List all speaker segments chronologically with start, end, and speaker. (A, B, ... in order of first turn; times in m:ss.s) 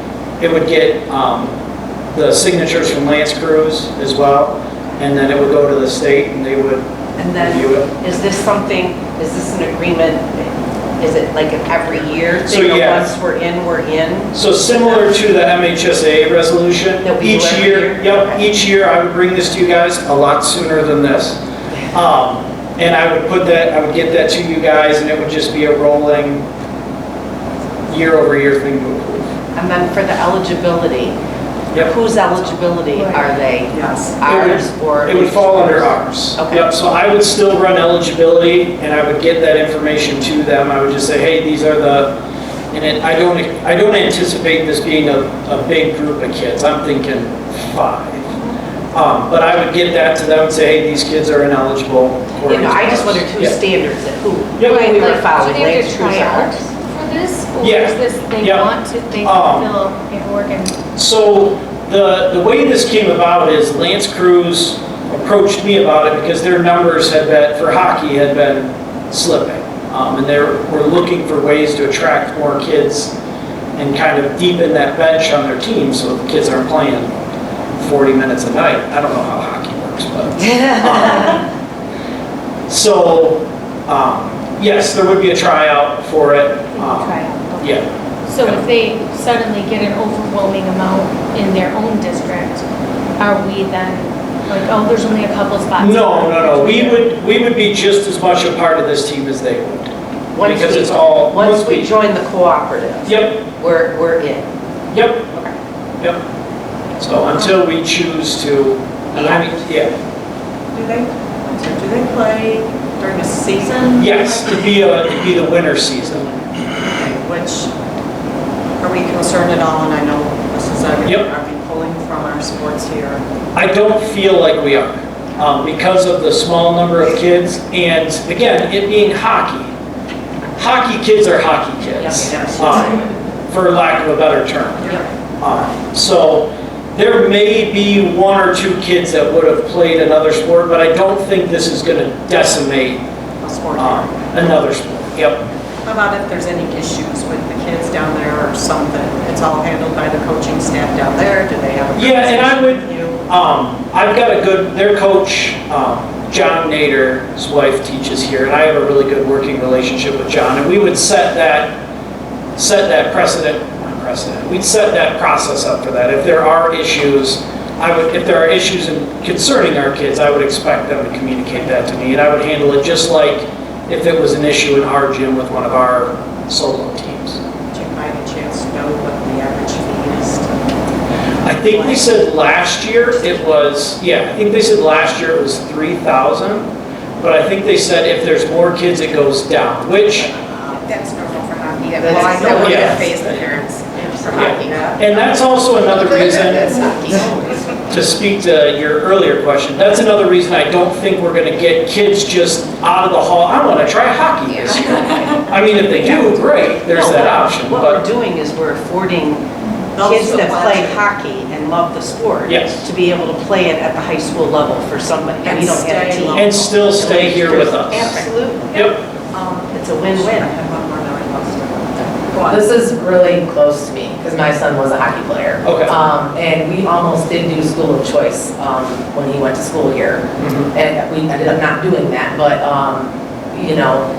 0:00.4-0:01.5 A
0:02.1-0:06.9 A
0:07.2-0:14.3 B
0:07.4-0:07.9 A
0:12.5-0:13.1 A
0:14.3-0:21.4 A
0:17.0-0:18.4 B
0:21.9-0:26.4 A
0:27.9-0:29.3 A
0:29.6-0:31.2 B
0:31.8-0:36.6 B
0:32.9-0:33.3 C
0:33.7-0:34.2 D
0:34.2-0:42.1 A
0:42.7-0:48.3 A
0:48.9-0:53.6 A
0:52.5-0:56.6 B
0:54.6-0:55.0 A
0:54.6-1:00.8 C
0:57.6-0:59.7 A
1:01.0-1:13.1 A
1:13.8-1:17.1 A
1:17.8-1:21.4 A
1:20.6-1:21.1 B
1:22.7-1:27.8 A
1:26.7-1:27.7 C
1:28.2-1:32.7 C
1:33.2-1:37.0 C
1:35.8-1:41.9 A
1:40.3-1:44.4 B
1:43.0-1:43.4 A
1:44.9-1:45.2 A
1:47.0-1:49.9 A
1:49.1-1:49.5 B
1:50.7-1:54.6 D
1:54.0-1:56.3 A
1:56.8-1:57.7 D
1:58.8-2:03.2 D
2:03.5-2:09.7 A
2:10.6-2:23.0 A
2:12.0-2:13.1 B
2:12.3-2:12.6 D
2:14.8-2:15.1 D
2:23.4-2:24.5 D
2:23.8-2:25.4 A
2:25.8-2:33.2 D
2:31.9-2:41.8 A
2:42.6-2:57.4 A
2:57.7-3:00.6 D
3:01.4-3:06.7 A
3:01.5-3:02.1 D
3:07.2-3:10.3 A
3:10.9-3:15.0 E
3:12.0-3:13.4 F
3:12.2-3:12.7 D
3:12.5-3:13.2 A
3:14.3-3:16.9 A
3:15.9-3:17.2 E
3:17.9-3:28.0 A
3:26.9-3:29.4 B
3:29.9-3:31.0 D
3:30.0-3:38.7 B
3:32.4-3:32.9 A
3:35.4-3:37.2 D
3:36.3-3:38.2 A
3:38.1-3:42.6 D
3:38.7-3:39.0 A
3:39.7-3:40.5 B
3:42.3-3:54.0 F
3:45.6-3:45.9 A
3:50.4-3:50.7 A